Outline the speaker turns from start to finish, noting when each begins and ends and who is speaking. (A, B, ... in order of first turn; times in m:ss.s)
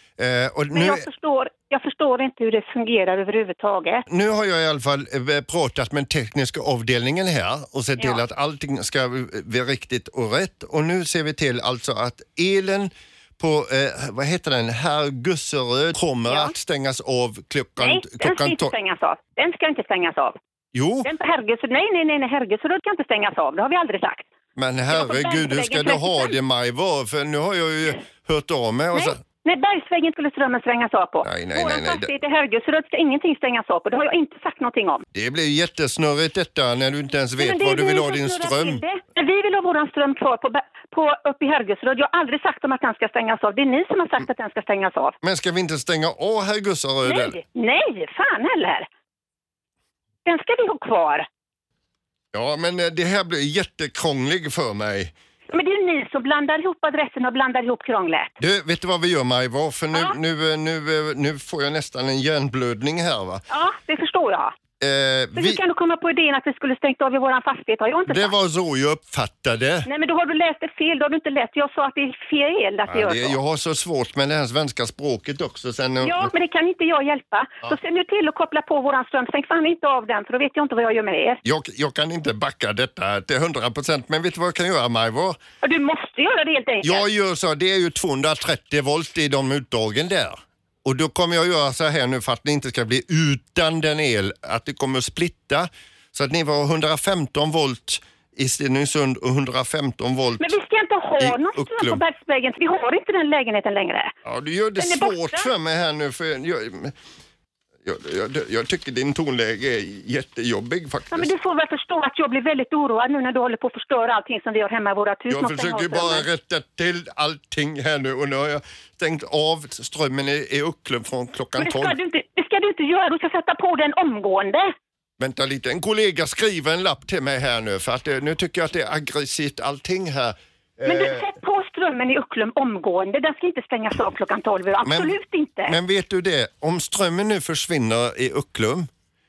0:00.2-0:01.0 A
0:00.7-0:04.0 B
0:04.1-0:18.7 A
0:08.0-0:08.2 B
0:16.3-0:16.5 B
0:17.8-0:20.3 B
0:20.7-0:21.1 A
0:21.0-0:24.2 B
0:24.6-0:29.2 A
0:24.9-0:26.4 B
0:28.9-0:35.0 B
0:31.2-0:32.1 A
0:35.1-0:38.8 A
0:37.4-0:45.2 B
0:45.2-0:47.4 A
0:47.0-0:48.8 B
0:50.2-0:51.2 B
0:52.3-0:55.1 A
0:55.5-0:58.3 B
0:58.4-1:03.4 A
1:03.5-1:04.5 B
1:04.8-1:05.6 A
1:05.4-1:08.3 B
1:08.1-1:09.9 A
1:09.8-1:13.4 B
1:12.9-1:16.3 A
1:16.0-1:21.4 B
1:21.4-1:25.4 A
1:25.6-1:27.0 B
1:26.8-1:40.5 A
1:40.4-1:44.1 B
1:41.2-1:42.0 A
1:44.2-1:46.9 A
1:44.8-1:45.5 B
1:47.8-1:51.3 A
1:51.1-1:56.3 B
1:55.3-2:02.0 A
2:01.6-2:04.7 B
2:05.2-2:11.2 A
2:10.8-2:15.8 B
2:14.8-2:15.2 A
2:15.7-2:18.9 A